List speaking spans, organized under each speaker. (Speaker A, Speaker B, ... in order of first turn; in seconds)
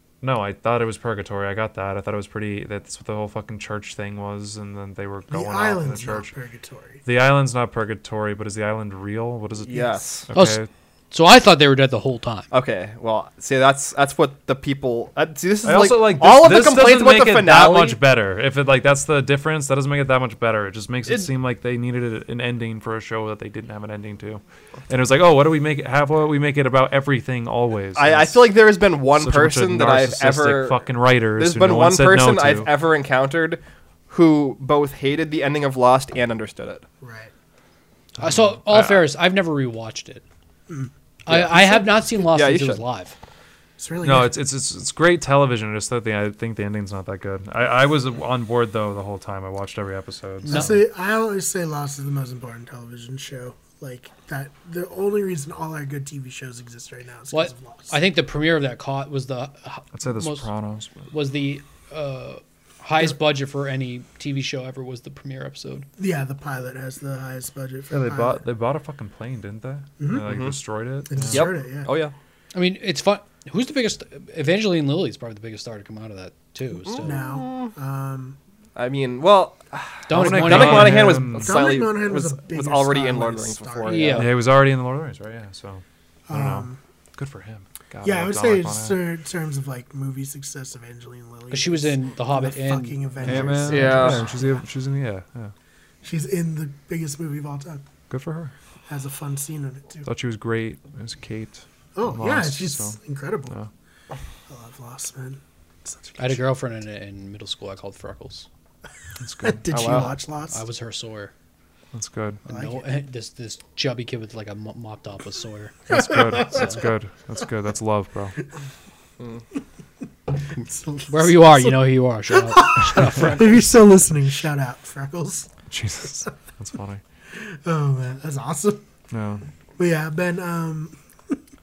Speaker A: 0.2-6.3, 7.0-10.7, 15.6-28.4, 29.2-32.7, 38.2-39.0, 44.0-50.8, 59.9-61.1, 67.9-71.5, 80.1-81.6, 84.2-89.0, 93.2-95.5, 98.1-98.5, 100.0-103.0, 109.2-109.7, 111.9-112.4, 115.9-118.4, 125.7-127.0, 129.1-129.4
Speaker B: 5.3-7.0, 37.0-37.3, 43.8-44.4, 50.5-58.0, 66.0-68.4, 70.0-70.3, 71.1-71.9, 77.0-78.4, 81.3-84.2, 86.3-86.8, 88.0-94.6, 96.0-97.8, 98.9-100.1, 102.0-103.5, 104.5-106.5, 109.4-110.6, 112.5-112.9, 115.9-116.7, 120.5-125.5, 127.3-128.9, 129.8-131.4
Speaker C: 9.7-10.3, 12.5-18.0, 27.9-30.8, 31.4-36.8, 41.3-42.8, 70.2-70.5, 71.3-72.1, 76.8-77.7, 78.8-84.3, 93.7-94.3, 109.7-110.2
Speaker D: 10.3-12.5, 38.2-40.2, 41.2-43.1, 50.5-50.8, 57.3-60.5, 61.1-65.8, 72.5-77.2, 80.1-81.2, 83.8-84.3, 91.5-93.7, 106.2-108.5, 110.5-111.3, 112.5-116.8, 121.1-123.6